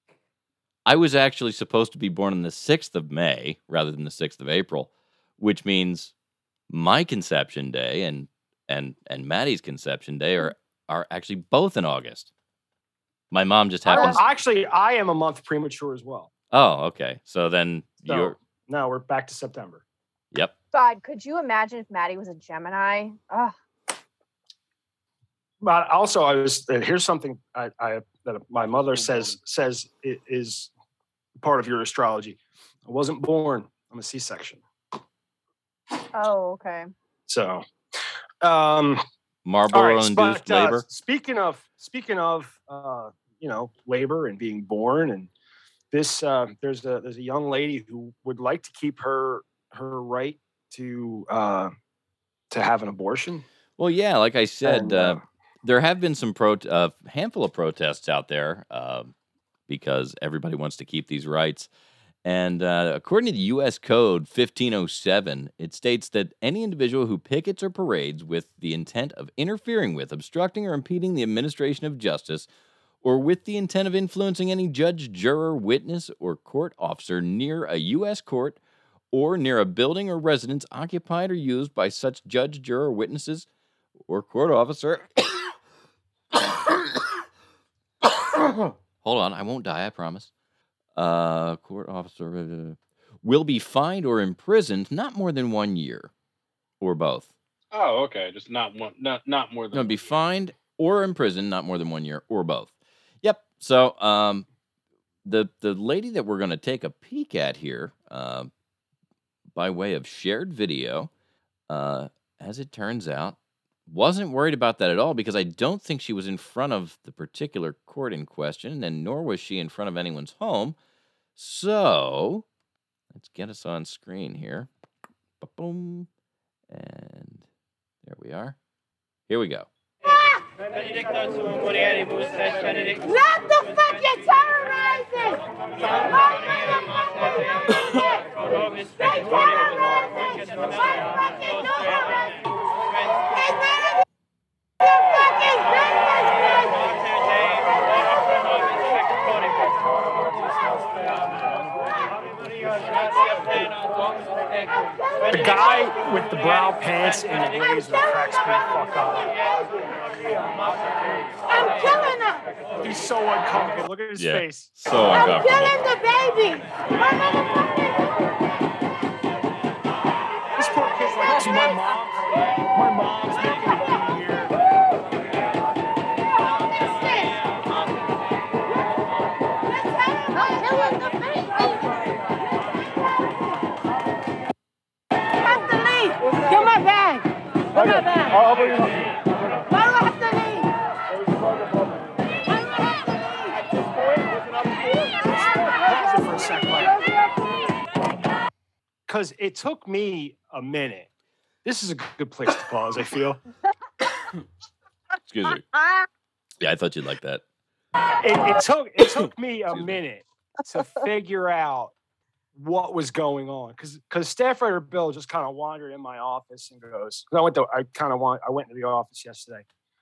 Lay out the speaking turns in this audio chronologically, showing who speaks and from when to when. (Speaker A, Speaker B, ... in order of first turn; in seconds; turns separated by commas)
Speaker A: 0.8-6.1, Speaker A: 6.7-12.3, Speaker A: 13.3-14.2, Speaker B: 13.9-16.3, Speaker C: 13.9-14.2, Speaker A: 16.5-18.4, Speaker B: 18.0-19.8, Speaker C: 20.7-23.5, Speaker B: 25.6-30.7, Speaker D: 28.9-29.3, Speaker B: 31.4-34.6, Speaker C: 36.1-36.9, Speaker B: 37.3-37.6, Speaker B: 38.4-39.0, Speaker A: 39.4-40.8, Speaker B: 39.7-45.3, Speaker B: 45.9-51.7, Speaker B: 52.5-53.5, Speaker A: 53.8-59.1, Speaker B: 54.6-55.2, Speaker A: 59.7-61.7, Speaker A: 62.2-72.5, Speaker A: 73.0-78.6, Speaker A: 79.1-83.5, Speaker A: 84.1-85.1, Speaker A: 89.0-90.3, Speaker A: 90.9-96.1, Speaker A: 96.8-97.3, Speaker D: 97.7-100.1, Speaker A: 99.7-102.7, Speaker A: 103.2-104.5, Speaker A: 105.2-108.5, Speaker A: 109.5-111.1, Speaker A: 111.7-120.8, Speaker A: 121.3-122.4, Speaker A: 123.1-124.7, Speaker A: 125.4-126.1, Speaker A: 126.7-127.4, Speaker A: 128.0-128.6, Speaker A: 129.3-129.7, Speaker E: 133.0-135.4, Speaker B: 155.3-159.3, Speaker E: 161.5-162.4, Speaker B: 162.8-164.7, Speaker A: 164.2-165.8, Speaker E: 165.1-168.0, Speaker B: 170.6-174.5, Speaker C: 171.3-171.8, Speaker E: 176.5-177.4, Speaker E: 179.7-181.0, Speaker C: 180.3-181.9, Speaker E: 185.4-188.6, Speaker B: 188.3-189.0, Speaker E: 189.7-190.7, Speaker E: 192.6-192.9, Speaker B: 195.0-197.0, Speaker B: 199.1-201.1, Speaker B: 201.6-203.4, Speaker A: 205.3-205.6, Speaker C: 205.8-206.0, Speaker A: 206.6-207.4, Speaker B: 208.2-211.9, Speaker A: 209.7-210.0, Speaker B: 212.5-219.6